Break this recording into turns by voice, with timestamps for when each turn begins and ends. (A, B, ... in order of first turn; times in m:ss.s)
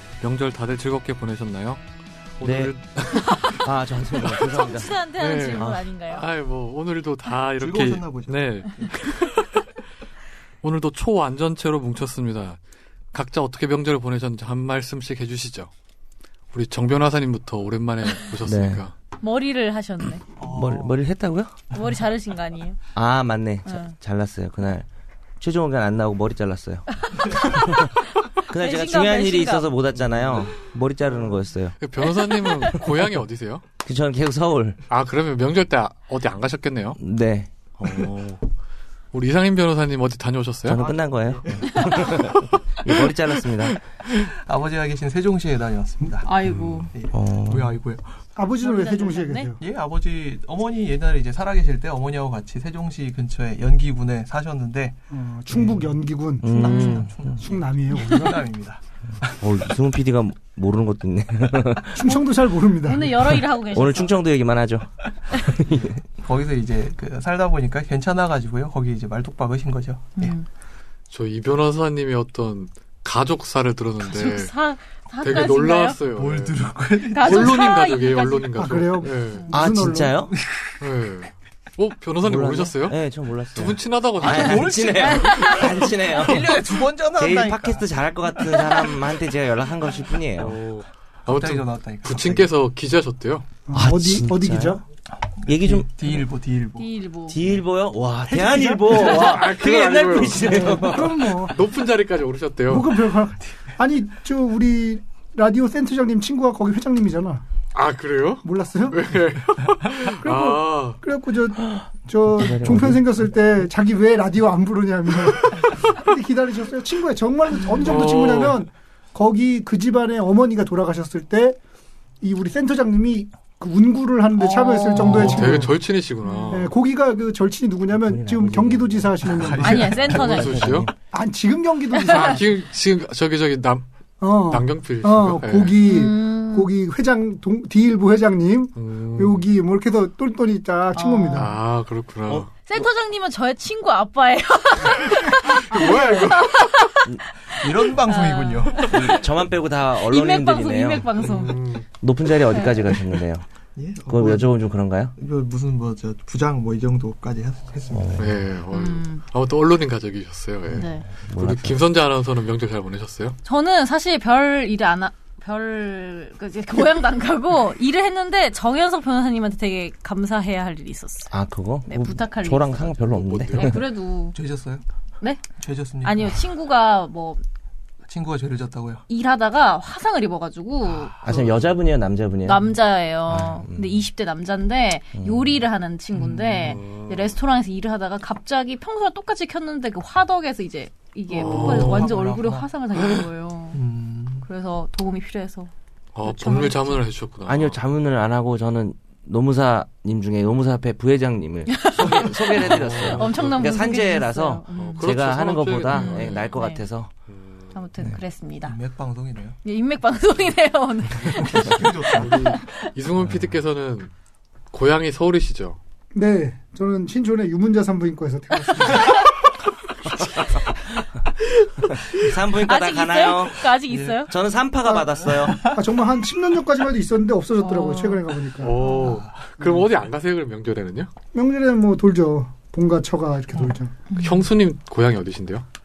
0:00.2-0:01.8 A
0:02.4-0:03.7 A
0:02.4-0:02.7 B
0:03.5-0:04.9 B
0:04.3-0:06.3 C
0:05.2-0:09.5 A
0:05.5-0:05.8 B
0:07.6-0:09.1 D
0:10.6-0:12.6 A
0:13.1-0:15.7 A
0:16.5-0:18.9 A
0:18.4-0:18.8 B
0:19.2-0:20.2 C
0:20.4-0:21.0 D
0:20.5-0:21.5 B
0:21.7-0:22.8 C
0:23.0-0:24.9 B
0:23.7-0:24.0 C
0:25.4-0:27.9 B
0:27.0-0:27.9 C
0:28.5-0:31.8 B
0:28.5-0:29.7 C
0:31.8-0:33.6 A
0:33.8-0:34.8 B
0:34.9-0:37.0 A
0:37.0-0:38.1 B
0:37.8-0:38.4 A
0:39.1-0:40.8 A
0:40.7-0:43.8 B
0:40.8-0:42.3 D
0:44.1-0:48.0 D
0:46.2-0:46.9 C
0:46.4-0:46.9 A
0:47.1-0:47.8 B
0:48.4-0:49.6 E
0:48.6-0:49.5 C
0:49.6-0:55.0 D
0:55.1-0:58.5 E
0:55.5-0:55.8 D
0:56.4-0:57.2 B
0:56.5-0:59.4 D
0:56.6-0:57.1 C
0:59.3-1:02.1 B
1:02.0-1:03.3 E
1:02.8-1:04.2 C
1:03.7-1:05.9 B
1:05.6-1:10.4 D
1:10.2-1:10.5 C
1:11.1-1:14.5 A
1:14.0-1:16.0 C
1:15.2-1:16.6 A
1:16.2-1:17.7 D
1:17.1-1:18.5 C
1:17.2-1:19.5 A
1:18.6-1:20.3 E
1:19.5-1:20.4 B
1:20.4-1:20.7 D
1:20.8-1:23.0 A
1:22.2-1:30.6 B
1:23.5-1:25.3 A
1:24.2-1:27.9 D
1:25.0-1:25.7 C
1:28.4-1:28.8 D
1:30.4-1:33.5 A
1:31.3-1:32.5 D
1:33.7-1:34.8 E
1:33.7-1:34.8 B
1:35.4-1:36.9 D
1:35.4-1:35.9 B
1:36.8-1:37.4 C
1:37.3-1:41.2 B
1:38.3-1:39.3 E
1:38.9-1:43.0 A
1:40.7-1:41.6 E
1:42.7-1:47.4 E
1:47.7-1:51.0 A
1:48.4-1:49.1 E
1:50.2-2:01.6 E
1:52.4-1:53.2 B
1:57.8-1:58.6 A
2:02.2-2:05.7 E
2:04.4-2:05.6 C
2:05.0-2:06.7 A
2:06.2-2:06.6 C
2:06.5-2:10.0 E
2:08.0-2:10.9 B
2:09.3-2:10.4 D
2:09.6-2:10.7 C
2:10.2-2:10.9 A
2:11.1-2:12.4 E
2:12.1-2:12.4 C
2:12.1-2:13.8 A
2:14.2-2:21.6 E
2:14.4-2:15.8 A
2:15.8-2:16.7 C
2:18.8-2:19.4 A
2:21.0-2:21.5 C
2:21.3-2:22.5 A
2:22.3-2:22.9 B
2:22.6-2:29.2 C
2:25.2-2:27.0 A
2:27.6-2:29.0 D
2:28.9-2:31.2 B
2:30.0-2:31.6 C
2:31.2-2:31.8 A
2:32.0-2:33.4 B
2:32.5-2:32.9 C
2:33.8-2:34.6 D
2:34.1-2:35.1 B
2:35.2-2:38.4 D
2:37.9-2:38.3 B
2:38.2-2:43.4 A
2:38.7-2:39.2 C
2:40.7-2:41.1 C
2:41.1-2:41.8 B
2:43.4-2:51.3 C
2:51.3-2:53.8 B
2:51.9-2:53.0 C
2:53.0-2:53.8 A
2:53.5-2:54.4 C
2:54.3-2:54.8 D
2:55.6-2:56.4 D
2:56.0-2:57.4 C
2:58.1-2:59.0 D
2:59.1-3:01.2 C
3:01.0-3:01.5 D
3:01.2-3:02.7 B
3:02.4-3:13.8 C
3:03.3-3:04.1 B
3:05.2-3:05.6 B
3:06.1-3:06.8 D
3:06.6-3:07.3 A
3:11.3-3:12.7 D
3:11.4-3:12.2 A
3:13.7-3:14.5 D
3:14.4-3:15.7 C
3:16.2-3:17.8 A
3:16.2-3:17.0 C
3:17.5-3:27.1 B
3:21.7-3:25.1 C
3:22.6-3:24.0 A
3:24.7-3:26.5 A
3:25.9-3:26.8 C
3:27.3-3:27.7 A
3:27.7-3:28.8 C
3:28.6-3:29.6 D
3:29.6-3:32.9 C
3:31.3-3:32.5 D
3:32.1-3:34.1 A
3:34.7-3:35.8 A
3:36.1-3:39.2 E
3:38.9-3:39.2 C
3:40.5-3:40.8 C
3:42.1-3:43.7 B
3:42.6-3:44.3 C
3:43.9-3:44.3 D
3:44.3-3:45.6 B
3:45.2-3:45.8 D
3:45.6-3:48.8 E
3:47.6-3:48.2 C
3:48.6-3:51.1 A
3:48.8-3:49.8 D
3:51.3-3:54.0 E
3:54.1-3:54.5 C
3:54.2-3:55.6 A